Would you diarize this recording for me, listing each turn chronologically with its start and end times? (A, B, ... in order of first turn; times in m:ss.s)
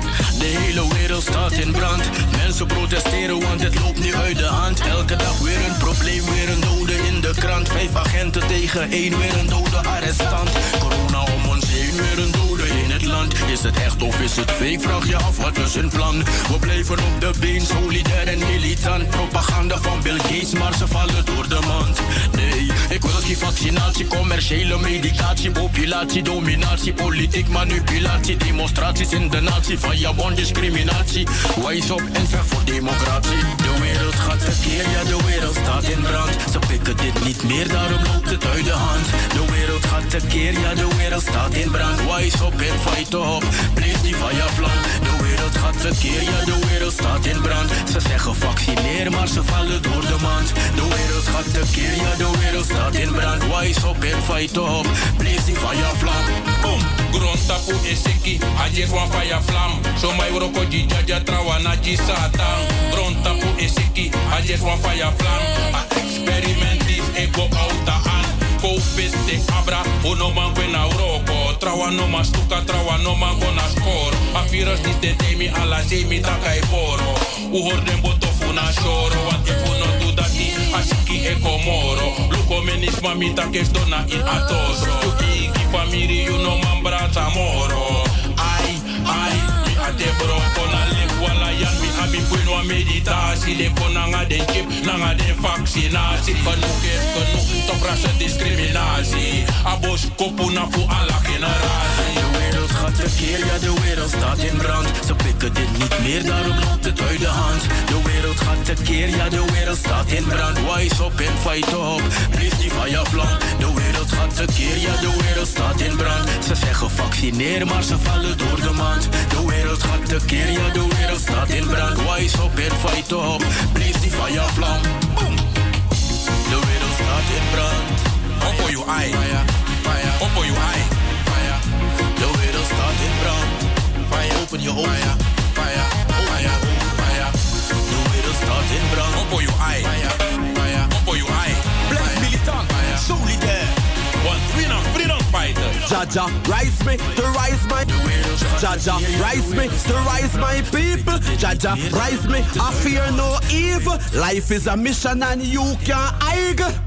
0:00.3-0:56.3 A
0:56.6-1:42.0 B
1:42.0-2:05.3 A
2:06.4-2:08.0 A
2:08.4-2:10.9 B
2:12.2-2:13.5 A
2:14.1-2:15.1 A
2:14.8-2:17.2 B
2:17.8-2:19.3 A
2:19.1-2:23.1 B
2:24.2-2:25.9 B
2:25.9-2:27.8 C
2:27.8-2:33.4 A
2:28.6-2:36.7 C